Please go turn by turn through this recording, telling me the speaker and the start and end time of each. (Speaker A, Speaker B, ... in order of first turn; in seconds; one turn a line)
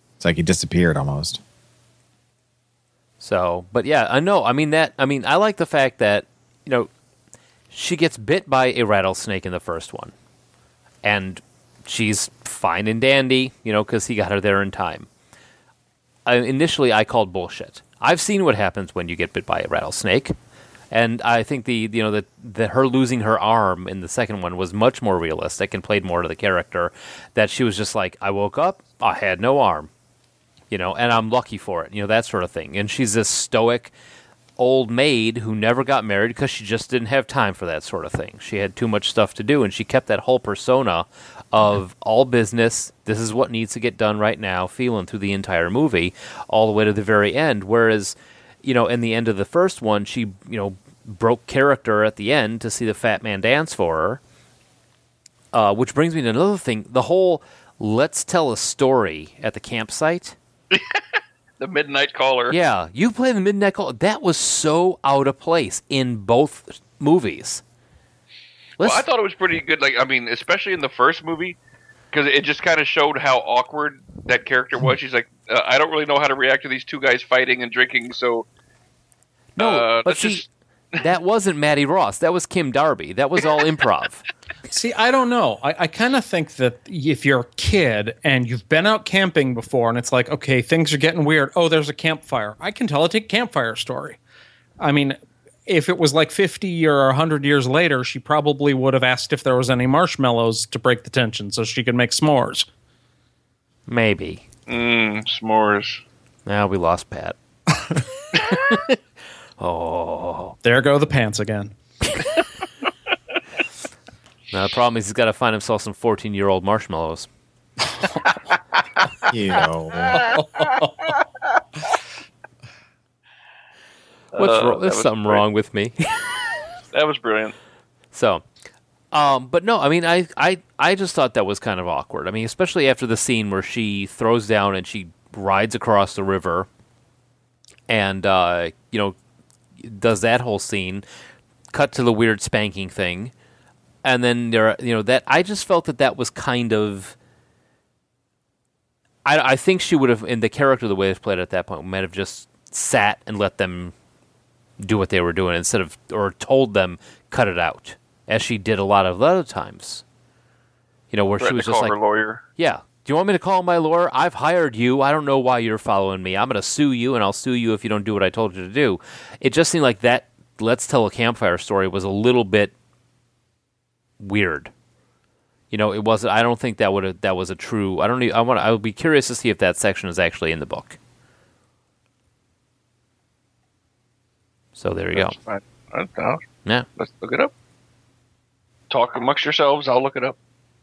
Speaker A: 0.2-1.4
Speaker B: 3.2-6.9
Speaker B: 7.7-10.1
Speaker B: 11.0-15.1
Speaker B: 16.3-20.4
Speaker B: 20.9-29.9
Speaker B: 30.7-33.9
Speaker B: 34.6-54.2
Speaker B: 55.5-60.4
Speaker C: 60.7-61.0
Speaker C: 61.6-62.6
Speaker B: 62.5-67.6
Speaker B: 68.8-69.0
Speaker C: 68.8-71.6
Speaker C: 72.1-78.5
Speaker B: 79.6-80.5
Speaker C: 79.6-80.5
Speaker B: 81.0-84.2
Speaker D: 84.7-94.2
Speaker D: 94.8-102.7
Speaker B: 103.9-104.4
Speaker C: 104.7-106.0
Speaker B: 106.5-107.4
Speaker B: 108.5-109.0
Speaker B: 109.6-110.6
Speaker D: 110.6-111.7
Speaker B: 114.5-117.3
Speaker A: 119.3-120.2
Speaker D: 120.1-121.1
Speaker C: 124.3-125.4
Speaker B: 124.4-126.3
Speaker C: 126.9-127.5
Speaker B: 128.1-128.4
Speaker B: 129.1-136.7
Speaker B: 137.9-139.2
Speaker B: 139.8-141.1
Speaker B: 141.7-143.3
Speaker B: 144.0-147.2
Speaker B: 149.2-153.9
Speaker B: 154.8-160.0
Speaker B: 161.1-162.0
Speaker C: 161.4-162.4
Speaker B: 162.6-172.7
Speaker B: 174.2-174.7
Speaker B: 175.7-181.0
Speaker B: 184.8-185.3
Speaker C: 185.1-186.4
Speaker C: 187.0-187.5
Speaker C: 188.9-190.4